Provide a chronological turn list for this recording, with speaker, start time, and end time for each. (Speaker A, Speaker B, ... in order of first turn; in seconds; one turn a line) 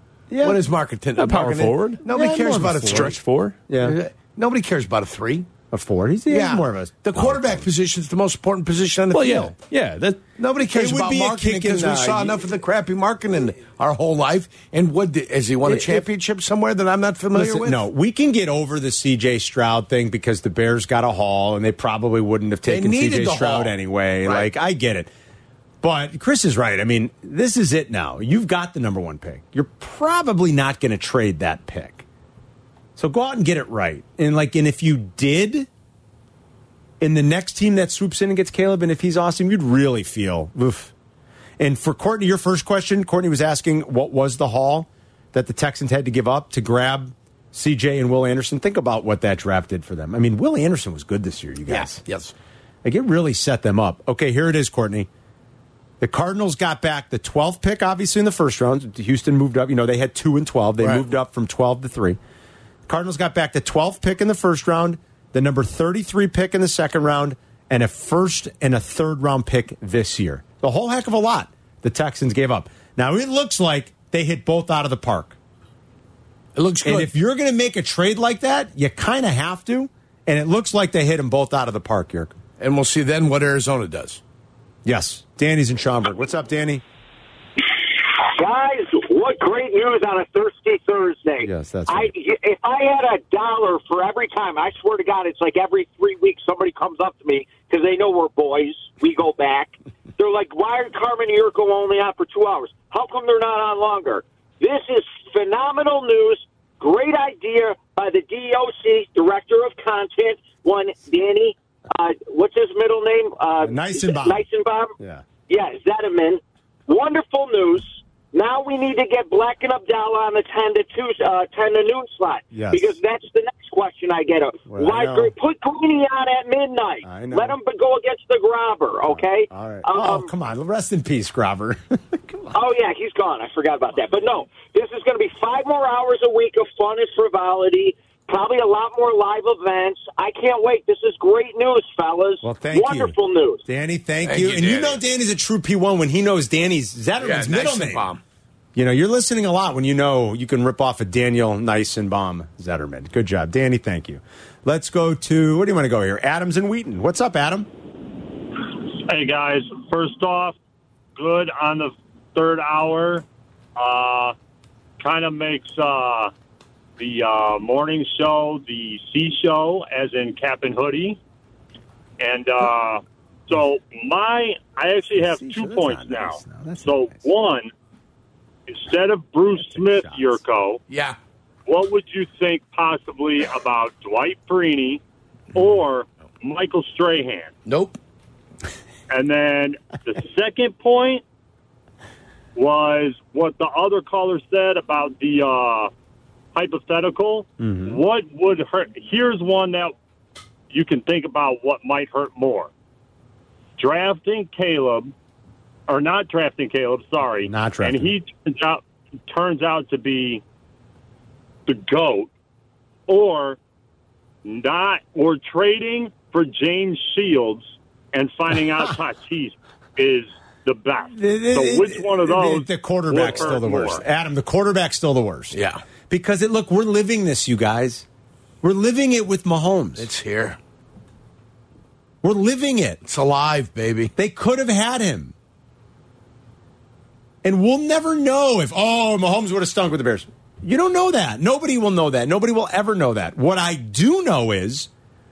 Speaker A: 0.3-0.6
Speaker B: 0.4-3.2
Speaker C: 1.2-2.0
Speaker A: 2.1-4.0
Speaker C: 2.6-3.5
Speaker B: 3.8-5.5
Speaker A: 5.7-7.7
Speaker B: 6.3-9.6
Speaker C: 9.1-10.2
Speaker B: 10.4-17.8
Speaker A: 10.7-12.4
Speaker A: 15.6-16.0
Speaker A: 17.3-25.1
Speaker B: 22.7-24.5
Speaker A: 25.8-32.0
Speaker A: 33.0-35.7
Speaker A: 37.0-40.9
Speaker A: 41.6-52.0
Speaker B: 51.7-52.3
Speaker A: 52.8-55.1
Speaker A: 56.0-62.2
Speaker A: 62.9-75.4
Speaker B: 76.5-77.1
Speaker A: 76.8-82.3
Speaker B: 82.6-84.2
Speaker A: 84.8-86.8
Speaker D: 88.2-114.9
Speaker A: 91.4-92.1
Speaker A: 113.6-114.4
Speaker A: 115.0-115.2
Speaker D: 115.5-130.3
Speaker A: 122.5-123.0
Speaker A: 124.7-125.3
Speaker A: 127.0-127.5
Speaker A: 129.1-132.6
Speaker D: 132.5-143.6
Speaker A: 142.4-143.1
Speaker A: 143.7-148.1
Speaker B: 144.2-145.0
Speaker B: 147.2-148.2
Speaker A: 148.7-157.7
Speaker E: 158.6-160.6
Speaker E: 161.2-163.2
Speaker E: 163.8-164.3
Speaker E: 165.0-166.3
Speaker E: 167.0-171.2
Speaker E: 172.2-177.7
Speaker A: 175.1-177.3
Speaker E: 178.7-180.8
Speaker A: 179.5-180.4
Speaker B: 180.9-181.2
Speaker E: 181.7-185.0
Speaker E: 185.5-187.5
Speaker B: 187.7-188.0
Speaker E: 189.1-191.2
Speaker E: 192.6-195.9
Speaker E: 196.5-199.9
Speaker A: 197.6-198.0
Speaker E: 200.7-202.7
Speaker E: 203.8-205.1
Speaker E: 205.9-210.4
Speaker A: 207.4-208.1
Speaker E: 211.7-212.3
Speaker E: 213.1-213.6
Speaker E: 214.4-224.0
Speaker A: 221.1-225.6
Speaker B: 225.5-225.8
Speaker A: 226.1-228.1
Speaker A: 228.6-230.1
Speaker B: 229.9-230.6
Speaker A: 232.2-233.0
Speaker B: 233.0-234.1
Speaker A: 234.2-235.3
Speaker A: 237.4-244.9